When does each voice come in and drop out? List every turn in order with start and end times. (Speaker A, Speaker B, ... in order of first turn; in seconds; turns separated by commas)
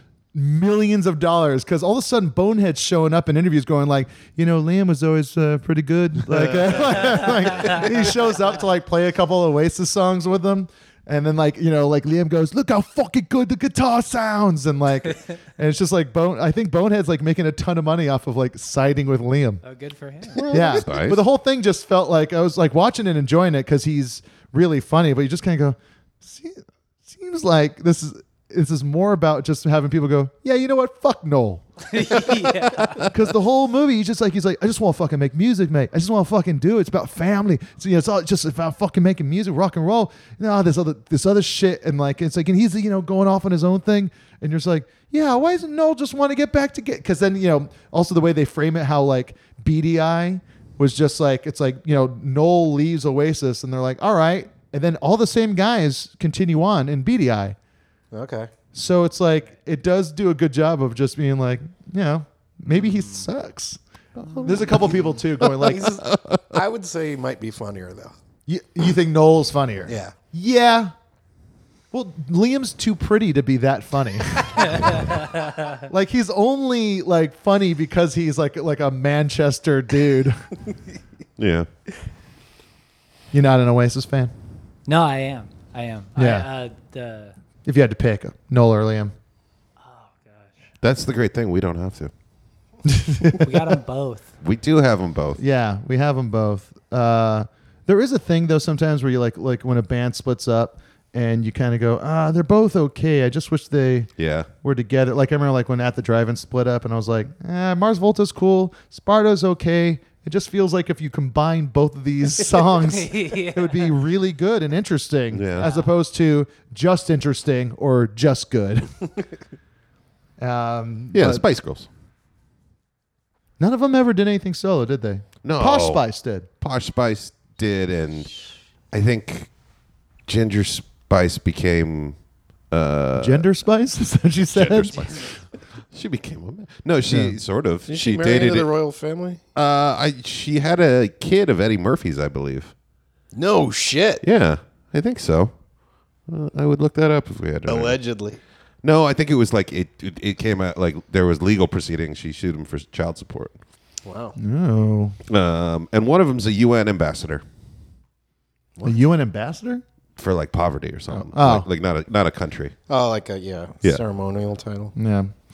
Speaker A: 0.3-19.6, Speaker B: 6.3-7.2, Speaker C: 19.6-20.4, Speaker B: 20.4-21.2, Speaker A: 20.5-32.4, Speaker C: 31.9-33.1, Speaker A: 32.9-57.5, Speaker D: 58.1-58.5, Speaker A: 58.7-63.8, Speaker C: 62.7-63.3, Speaker B: 64.2-65.0, Speaker A: 64.4-66.0, Speaker D: 65.6-68.1, Speaker B: 65.6-66.4, Speaker A: 68.5-70.9, Speaker D: 69.8-70.1, Speaker A: 71.9-74.9, Speaker C: 74.6-75.8, Speaker A: 75.9-80.4, Speaker B: 81.4-81.7, Speaker A: 83.3-84.3, Speaker C: 84.9-87.3, Speaker A: 86.2-86.5, Speaker A: 87.6-89.1, Speaker C: 89.8-90.7, Speaker B: 90.8-92.1, Speaker A: 92.8-93.7, Speaker C: 93.4-94.3, Speaker B: 94.4-95.4, Speaker A: 95.4-104.1, Speaker B: 104.2-104.5, Speaker A: 104.6-118.9, Speaker C: 112.7-114.0, Speaker B: 115.3-115.7, Speaker C: 115.6-115.9, Speaker A: 120.4-121.4, Speaker B: 121.1-121.9, Speaker A: 123.6-126.5, Speaker B: 125.4-126.0, Speaker B: 126.6-128.3, Speaker B: 128.9-129.5, Speaker B: 130.3-132.2, Speaker B: 132.7-133.5, Speaker A: 133.2-135.3, Speaker B: 134.5-138.7, Speaker A: 137.1-137.4, Speaker D: 137.9-139.4, Speaker B: 139.5-142.7, Speaker D: 143.3-144.2, Speaker B: 144.2-145.5, Speaker B: 146.3-148.0, Speaker D: 147.7-148.4, Speaker B: 148.8-153.5, Speaker D: 154.0-154.3, Speaker A: 154.4-155.2, Speaker B: 155.3-157.4, Speaker A: 158.8-159.8, Speaker B: 160.2-162.7, Speaker A: 161.1-161.7, Speaker D: 162.9-164.9, Speaker A: 164.9-165.3